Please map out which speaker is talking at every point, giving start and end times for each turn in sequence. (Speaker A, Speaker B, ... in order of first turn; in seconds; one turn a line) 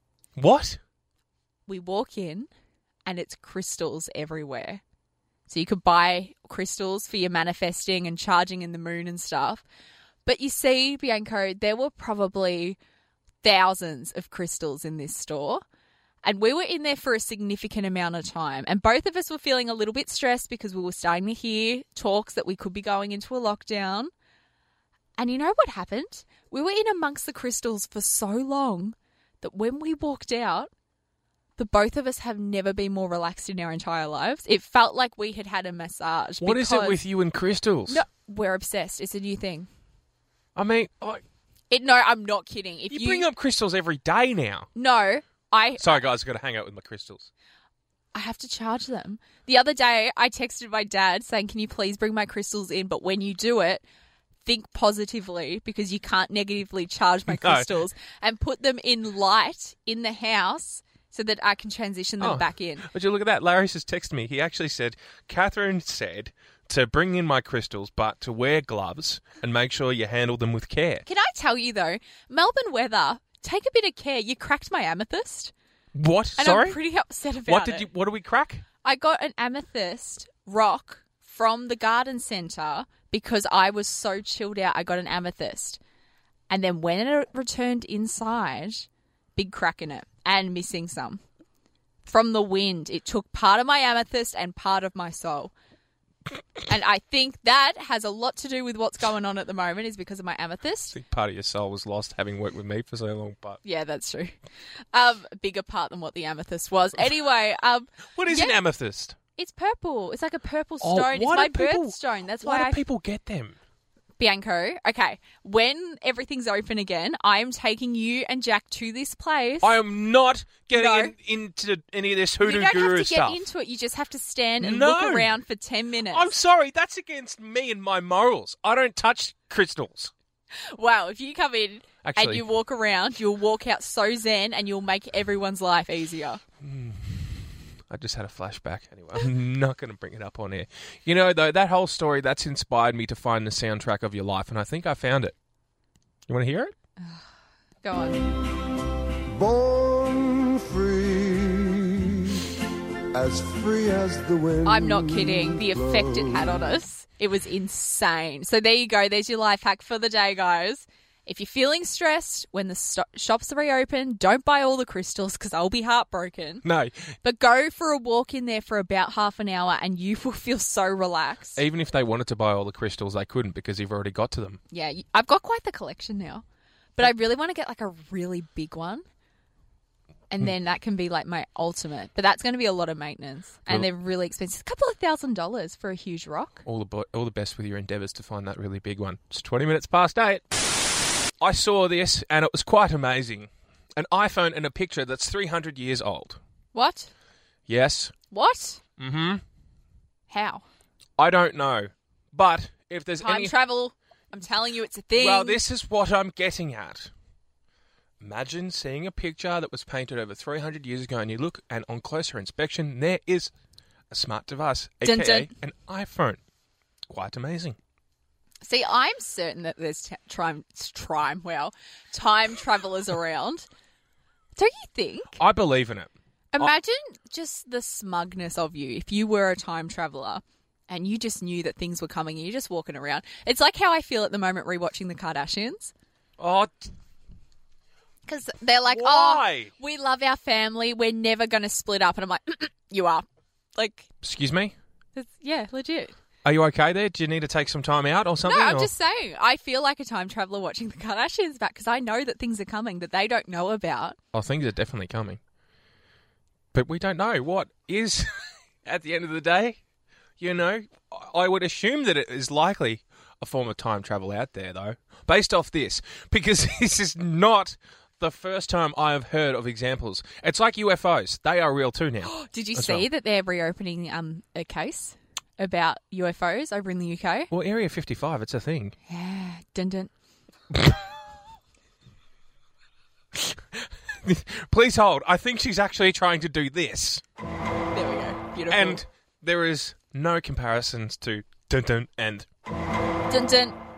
Speaker A: 0.4-0.8
Speaker B: 1.7-2.5
Speaker B: 3.1-4.8
Speaker B: 5.5-9.6
Speaker B: 10.3-12.8
Speaker B: 13.4-15.6
Speaker B: 16.2-24.1
Speaker B: 25.2-30.7
Speaker B: 31.6-37.0
Speaker A: 36.4-38.0
Speaker B: 37.9-39.7
Speaker A: 40.5-41.2
Speaker B: 41.7-43.3
Speaker A: 42.9-44.7
Speaker B: 44.8-46.0
Speaker A: 45.8-47.3
Speaker B: 48.1-53.9
Speaker B: 54.5-62.9
Speaker A: 57.3-57.7
Speaker A: 62.2-71.0
Speaker B: 71.1-75.5
Speaker A: 75.9-76.8
Speaker B: 76.4-77.9
Speaker A: 77.5-78.6
Speaker B: 78.8-85.8
Speaker B: 86.5-91.2
Speaker B: 92.1-95.5
Speaker B: 96.7-101.0
Speaker A: 100.9-103.6
Speaker B: 103.6-104.3
Speaker B: 104.9-108.6
Speaker A: 108.2-109.2
Speaker B: 109.4-112.8
Speaker A: 110.8-113.5
Speaker B: 114.2-119.8
Speaker A: 119.6-123.4
Speaker B: 120.7-121.1
Speaker B: 122.4-126.3
Speaker A: 124.6-125.4
Speaker A: 126.1-130.1
Speaker B: 130.7-136.4
Speaker A: 132.0-132.4
Speaker A: 136.6-145.3
Speaker A: 146.3-146.7
Speaker B: 147.8-148.3
Speaker C: 149.3-152.5
Speaker C: 153.1-156.7
Speaker B: 154.7-166.7
Speaker A: 166.7-167.1
Speaker B: 167.2-171.6
Speaker A: 171.6-174.6
Speaker B: 174.7-176.4
Speaker B: 177.0-179.0
Speaker B: 180.3-186.6
Speaker A: 186.7-190.5
Speaker A: 191.4-196.4
Speaker B: 196.7-197.1
Speaker A: 197.7-198.1
Speaker B: 198.3-198.8
Speaker A: 199.0-199.4
Speaker B: 200.3-200.6
Speaker A: 201.2-203.6
Speaker B: 203.2-205.6
Speaker A: 205.2-207.1
Speaker A: 208.2-213.5
Speaker A: 214.1-216.4
Speaker B: 215.0-215.5
Speaker A: 217.1-217.8
Speaker B: 218.6-223.7
Speaker B: 224.6-225.4
Speaker A: 225.4-226.7
Speaker B: 226.5-235.9
Speaker A: 236.4-236.9
Speaker B: 238.3-244.1
Speaker A: 238.9-239.7
Speaker A: 244.2-244.8
Speaker B: 245.2-246.2
Speaker A: 246.4-248.9
Speaker B: 248.4-254.2
Speaker A: 254.3-255.4
Speaker A: 256.7-259.8
Speaker A: 260.4-273.1
Speaker B: 272.2-277.5
Speaker A: 277.5-278.9
Speaker B: 279.1-280.1
Speaker A: 280.7-281.0
Speaker A: 283.3-287.2
Speaker B: 287.9-289.0
Speaker A: 288.7-292.5
Speaker B: 293.3-293.8